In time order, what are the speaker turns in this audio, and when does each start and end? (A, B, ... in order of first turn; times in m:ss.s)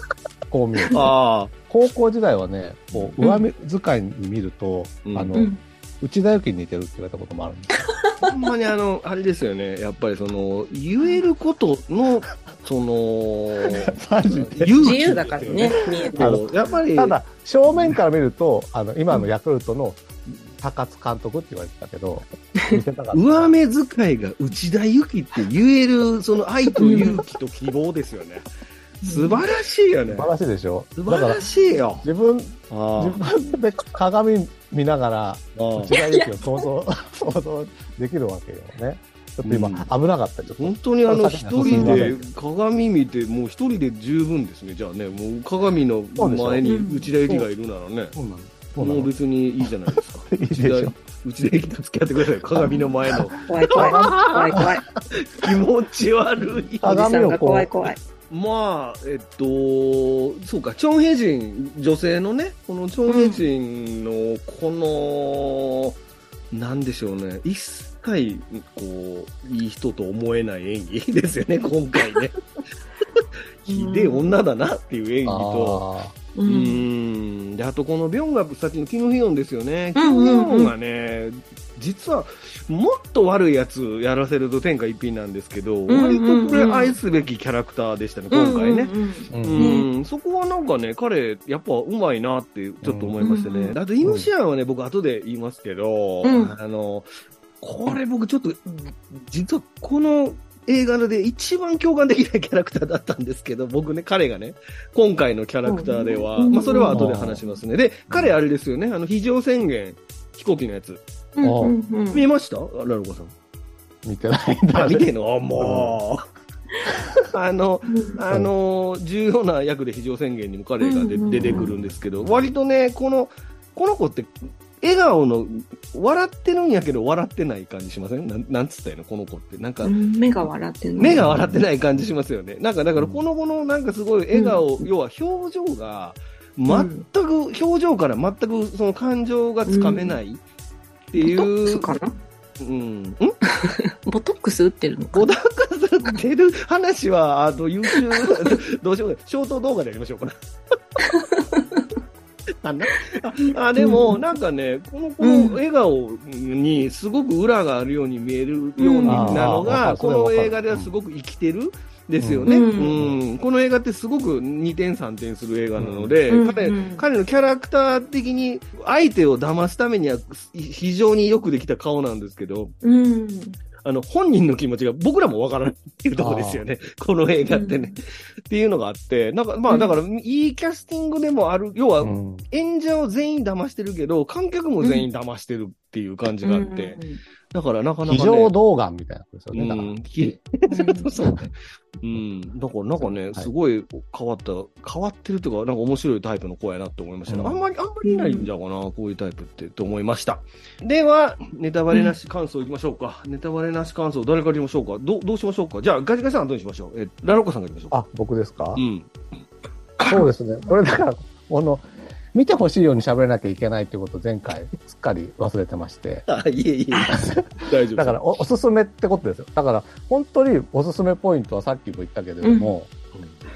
0:00.5-0:01.1 A
0:00.9-0:01.5 B
0:01.7-0:07.8 A
0:05.0-0:05.3 B
0:05.3-0:05.6 C
0:08.2-0:17.2 B
0:13.7-0:15.0 A
0:14.8-0:16.3 C
0:16.2-0:23.5 A
0:17.7-0:18.0 B
0:23.1-0:28.5 B
0:26.8-0:27.2 C
0:29.0-0:30.3 B
0:29.0-0:29.4 C
0:30.1-0:31.4 A
0:31.0-0:32.0 B
0:32.0-0:42.3 A
0:32.7-0:33.2 B
0:35.6-0:35.9 B
0:35.9-0:36.6 C
0:39.4-0:39.9 B
0:40.6-0:48.2 B
0:41.6-0:42.1 C
0:46.2-0:46.7 A
0:46.6-0:47.1 C
0:48.2-0:49.1 A
0:48.8-0:57.2 B
0:49.9-0:51.0 A
0:52.6-0:54.6 A
0:53.4-0:54.8 C
0:56.8-0:58.0 C
0:56.8-0:57.7 A
0:58.3-1:06.0 B
1:03.1-1:03.4 C
1:06.5-1:12.4 B
1:13.7-1:15.8 B
1:13.7-1:14.3 C
1:15.2-1:16.2 A
1:16.4-1:16.8 C
1:16.4-1:37.1 B
1:20.0-1:20.7 C
1:25.9-1:27.0 C
1:28.3-1:29.9 C
1:29.3-1:29.7 A
1:32.8-1:33.1 A
1:33.2-1:33.8 C
1:34.0-1:34.3 A
1:36.2-1:36.5 C
1:37.6-1:51.0 B
1:38.7-1:38.9 C
1:45.7-1:47.0 C
1:46.9-1:47.4 A
1:48.1-1:48.4 A
1:51.4-1:52.3 C
1:51.4-1:51.7 A
1:52.1-1:53.3 B
1:54.0-1:55.1 A
1:54.7-1:56.2 B
1:55.6-1:56.0 A
1:57.3-2:10.0 B
1:57.9-1:58.2 C
2:00.8-2:01.7 C
2:01.3-2:02.0 A
2:09.8-2:11.3 C
2:11.0-2:20.4 B
2:11.2-2:11.5 A
2:13.0-2:13.2 A
2:14.3-2:14.8 C
2:16.7-2:17.0 C
2:19.7-2:20.2 C
2:21.1-2:22.0 B
2:21.2-2:22.2 C
2:22.6-2:23.4 B
2:23.5-2:25.3 C
2:25.1-2:30.3 B
2:27.9-2:28.5 C
2:31.1-2:31.8 C
2:32.6-2:52.8 B
2:33.8-2:34.2 C
2:35.2-2:35.6 C
2:38.8-2:39.6 C
2:39.1-2:40.9 A
2:42.2-2:43.2 A
2:42.5-2:43.0 C
2:45.8-2:46.2 A
2:46.3-2:47.0 C
2:52.8-2:53.6 C
2:53.8-3:07.0 B
2:56.2-2:56.6 A
2:57.5-2:57.9 C
2:59.7-3:00.0 C
3:02.0-3:02.4 A
3:06.4-3:07.2 C
3:07.5-3:08.5 B
3:08.0-3:10.3 A
3:09.5-3:28.0 B
3:10.7-3:11.3 C
3:17.3-3:17.6 A
3:18.0-3:18.5 C
3:27.9-3:28.8 A
3:28.8-3:29.1 B
3:30.1-3:36.3 A
3:36.3-3:38.2 B
3:37.2-3:42.9 A
3:42.4-3:42.7 C
3:43.1-3:43.5 B